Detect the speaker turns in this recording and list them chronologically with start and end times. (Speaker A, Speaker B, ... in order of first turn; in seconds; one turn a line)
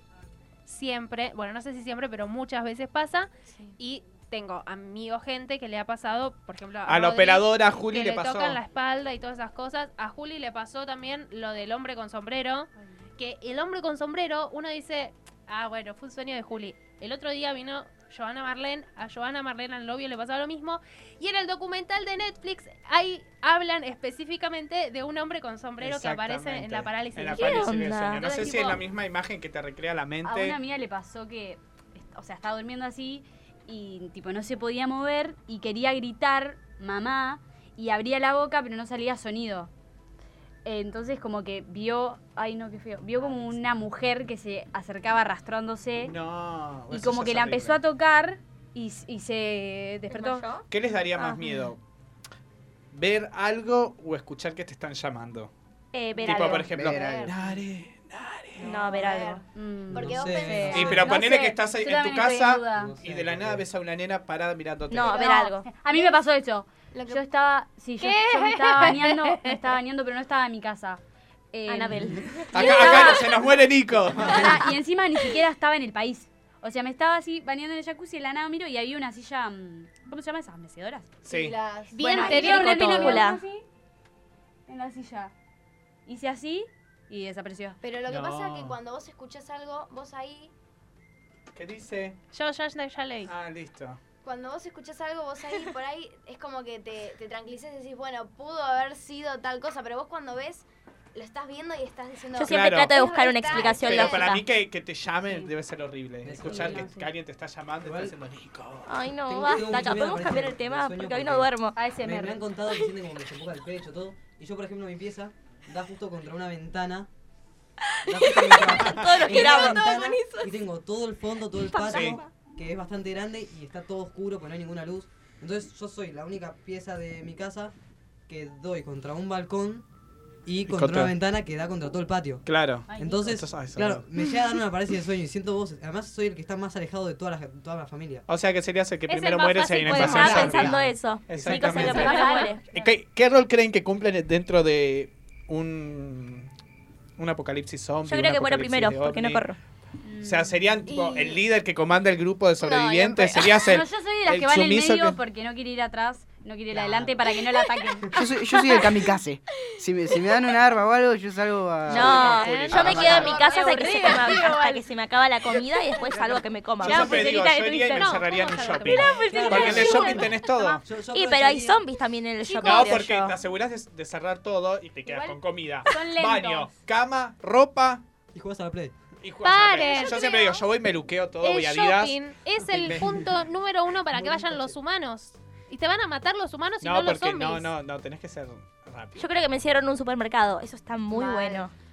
Speaker A: 0.7-28.7
Speaker B: 3.5-3.8
Speaker C: 6.8-8.6
Speaker C: 25.8-30.6
Speaker D: 27.4-28.3
Speaker E: 28.2-28.8
Speaker E: 30.2-39.7
Speaker E: 40.6-46.1
Speaker C: 46.0-47.8
Speaker E: 46.9-50.4
Speaker D: 50.1-51.7
Speaker C: 50.7-51.8
Speaker C: 52.9-55.5
Speaker D: 55.9-56.7
Speaker B: 56.2-57.6
Speaker C: 56.2-58.7
Speaker F: 56.7-57.3
Speaker B: 58.6-61.2
Speaker D: 58.6-59.4
Speaker E: 59.5-62.9
Speaker G: 59.9-61.1
Speaker C: 60.7-65.3
Speaker G: 62.7-63.6
Speaker D: 64.9-65.7
Speaker B: 65.1-66.2
Speaker E: 65.2-71.0
Speaker B: 66.9-67.2
Speaker A: 68.0-69.6
Speaker E: 71.5-73.2
Speaker D: 71.7-73.2
Speaker C: 72.5-74.6
Speaker B: 72.6-73.5
Speaker E: 74.2-81.1
Speaker C: 81.2-81.6
Speaker B: 81.3-82.7
Speaker A: 81.9-83.2
Speaker D: 82.0-83.4
Speaker E: 82.2-83.7
Speaker E: 84.7-85.3
Speaker E: 86.1-87.8
Speaker B: 87.8-90.5
Speaker C: 88.1-88.8
Speaker C: 91.5-92.2
Speaker A: 92.3-93.3
Speaker C: 93.3-94.0
Speaker B: 94.2-104.4
Speaker D: 102.3-104.4
Speaker C: 102.5-108.9
Speaker G: 106.2-106.9
Speaker E: 106.4-107.1
Speaker G: 107.8-108.1
Speaker D: 108.9-111.8
Speaker G: 109.3-117.1
Speaker C: 109.6-110.1
Speaker E: 111.8-112.5
Speaker D: 117.9-120.6
Speaker G: 118.1-127.7
Speaker D: 121.7-122.2
Speaker C: 121.8-122.2
Speaker G: 128.3-129.8
Speaker G: 130.4-138.3
Speaker C: 130.7-131.1
Speaker C: 132.4-134.1
Speaker E: 132.9-133.3
Speaker C: 138.3-140.7
Speaker A: 139.1-140.7
Speaker D: 139.9-142.6
Speaker G: 140.5-141.8
Speaker C: 141.3-146.5
Speaker E: 141.7-142.9
Speaker A: 141.8-142.5
Speaker C: 147.2-149.4
Speaker D: 148.1-149.6
Speaker E: 150.0-150.6
Speaker C: 150.2-155.2
Speaker B: 150.9-151.5
Speaker B: 152.6-153.7
Speaker E: 153.6-158.2
Speaker G: 156.7-157.1
Speaker F: 158.1-163.1
Speaker D: 161.9-168.2
Speaker C: 161.9-163.4
Speaker B: 162.4-164.4
Speaker A: 162.4-164.6
Speaker E: 163.3-164.8
Speaker C: 166.8-170.8
Speaker A: 166.9-167.3
Speaker A: 167.9-169.3
Speaker E: 168.9-170.8
Speaker G: 169.3-171.8
Speaker D: 171.1-173.3
Speaker A: 172.6-173.0
Speaker C: 172.6-178.0
Speaker A: 175.1-175.4
Speaker E: 175.9-176.7
Speaker G: 178.3-178.9
Speaker C: 179.2-182.2
Speaker A: 179.4-180.6
Speaker A: 181.4-187.7
Speaker C: 182.7-183.1
Speaker G: 182.8-183.3
Speaker G: 184.1-184.8
Speaker C: 186.8-189.2
Speaker D: 189.2-191.7
Speaker B: 191.1-191.7